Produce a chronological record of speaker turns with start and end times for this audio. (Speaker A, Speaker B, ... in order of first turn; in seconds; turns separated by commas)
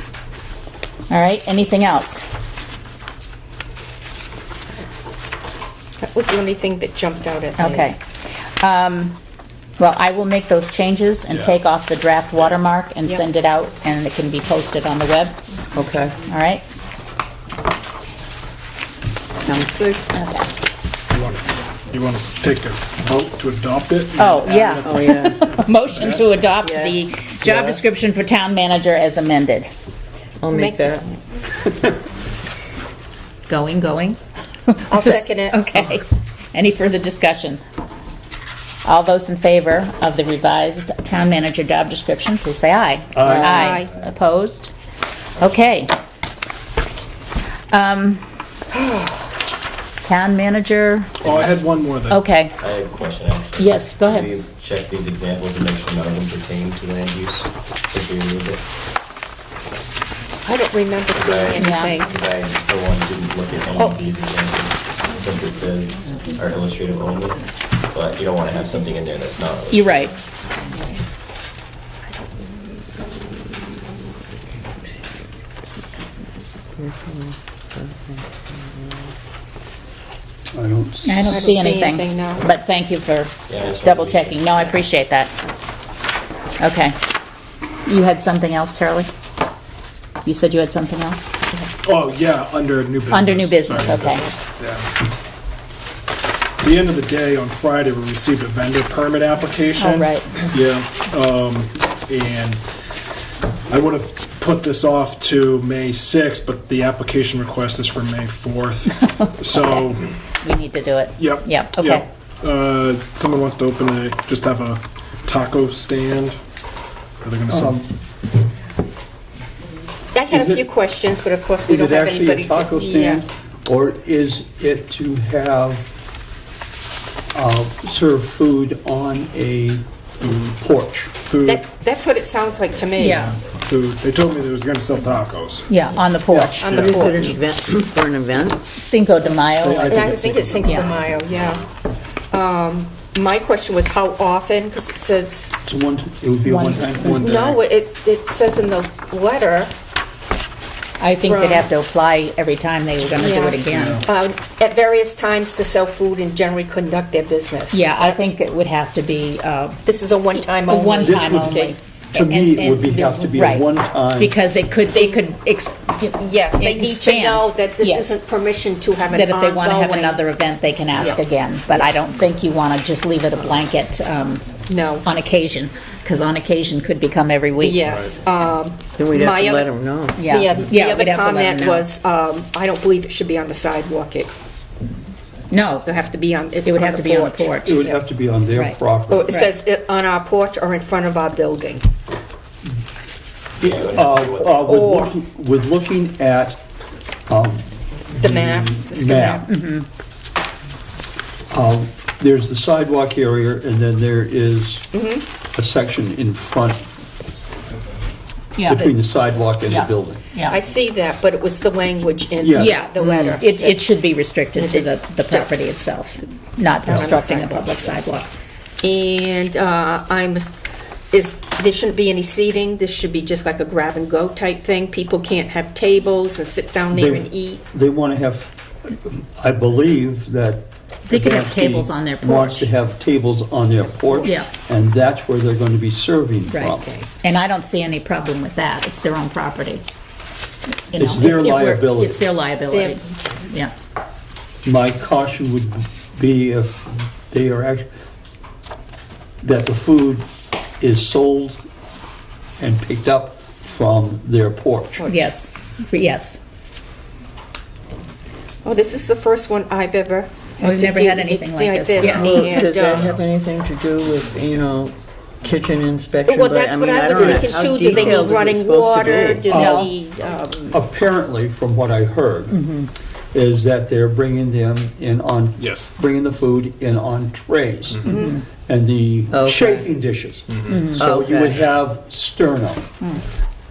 Speaker A: 1.1-2.2, Speaker B: 6.0-7.9, Speaker A: 7.6-9.2, Speaker A: 9.8-15.4, Speaker C: 11.3-11.5, Speaker D: 15.7-16.1, Speaker A: 16.2-16.6, Speaker D: 19.4-20.1, Speaker A: 20.1-20.5, Speaker C: 21.1-26.2, Speaker A: 24.2-29.7, Speaker D: 24.9-25.4, Speaker D: 26.6-26.9, Speaker D: 30.4-31.1, Speaker B: 30.5-31.0, Speaker A: 33.5-37.6, Speaker B: 34.9-36.0, Speaker A: 38.8-44.7, Speaker E: 43.1-43.5, Speaker B: 43.3-43.9, Speaker A: 45.4-45.9, Speaker A: 47.7-48.2, Speaker A: 50.0-51.5, Speaker C: 51.2-52.2, Speaker A: 52.1-52.5, Speaker F: 52.6-58.6, Speaker A: 53.6-54.3, Speaker B: 60.4-62.1, Speaker F: 61.1-70.0, Speaker A: 61.6-61.9, Speaker A: 69.7-70.1, Speaker D: 76.8-78.2, Speaker E: 80.5-81.3, Speaker A: 81.0-85.3, Speaker B: 81.2-82.5, Speaker F: 83.5-84.7, Speaker A: 86.6-87.0, Speaker A: 87.8-89.1, Speaker A: 90.2-91.3, Speaker C: 91.8-94.9, Speaker A: 93.1-94.3, Speaker C: 96.6-102.6, Speaker A: 99.8-100.5, Speaker C: 103.7-110.0, Speaker A: 109.0-109.9, Speaker A: 110.4-112.0, Speaker C: 111.2-116.4, Speaker C: 117.2-117.8, Speaker E: 117.5-117.9, Speaker B: 120.1-123.2, Speaker E: 120.3-120.7, Speaker E: 121.7-125.9, Speaker E: 127.3-131.1, Speaker C: 131.2-131.6, Speaker B: 131.4-133.3, Speaker A: 132.9-133.4, Speaker C: 133.0-135.8, Speaker A: 135.7-136.7, Speaker E: 136.3-136.6, Speaker B: 136.6-137.3, Speaker D: 136.7-138.7, Speaker C: 136.7-137.1, Speaker A: 138.7-140.1, Speaker C: 139.3-141.2, Speaker B: 139.9-141.6, Speaker A: 140.6-140.9, Speaker B: 142.3-145.5, Speaker E: 145.6-147.6, Speaker A: 146.4-147.4, Speaker B: 147.0-149.7, Speaker A: 151.0-154.1, Speaker B: 151.2-151.7, Speaker B: 153.2-158.2, Speaker C: 153.7-154.0, Speaker A: 157.7-159.8, Speaker B: 159.8-161.8, Speaker A: 160.3-168.2, Speaker E: 161.0-164.3, Speaker B: 162.6-163.4, Speaker B: 164.9-165.2, Speaker B: 166.2-170.2, Speaker A: 169.1-174.5, Speaker B: 174.7-175.1, Speaker A: 175.0-177.9, Speaker B: 177.6-179.7, Speaker D: 178.9-180.3, Speaker A: 180.1-181.9, Speaker B: 180.2-184.3, Speaker A: 185.5-185.9, Speaker B: 185.8-188.0, Speaker A: 186.6-187.8, Speaker E: 187.6-189.3, Speaker A: 188.5-189.5, Speaker B: 189.1-191.8, Speaker F: 193.6-194.6, Speaker E: 193.6-196.6, Speaker B: 194.6-195.1, Speaker E: 197.3-199.4, Speaker B: 198.2-199.5, Speaker A: 199.5-199.9, Speaker E: 201.5-204.9, Speaker B: 204.9-205.2, Speaker E: 205.5-206.8, Speaker A: 208.6-209.0, Speaker E: 208.7-210.2, Speaker A: 209.7-210.6, Speaker B: 210.4-213.9, Speaker E: 212.4-212.7, Speaker A: 212.5-218.3, Speaker B: 214.5-215.5, Speaker B: 216.8-217.9, Speaker B: 218.8-220.5, Speaker B: 221.1-227.6, Speaker E: 226.9-236.9, Speaker A: 231.1-232.7, Speaker A: 234.2-234.5, Speaker A: 236.5-239.8, Speaker A: 240.9-243.7, Speaker E: 240.9-242.2, Speaker B: 242.7-243.0, Speaker E: 244.6-247.9, Speaker E: 249.4-250.3, Speaker E: 250.8-251.6, Speaker E: 252.6-255.0, Speaker B: 255.0-255.3, Speaker A: 255.1-256.4, Speaker B: 258.6-263.1, Speaker A: 260.6-262.7, Speaker D: 262.0-269.5, Speaker B: 266.2-270.7, Speaker E: 269.5-269.9, Speaker A: 269.5-269.9, Speaker E: 270.7-272.6, Speaker A: 272.5-272.9, Speaker E: 273.3-282.8, Speaker C: 275.6-275.9, Speaker B: 278.0-278.4, Speaker A: 278.1-278.4, Speaker D: 279.3-279.9, Speaker C: 280.5-280.9, Speaker A: 280.7-281.0, Speaker D: 280.9-281.6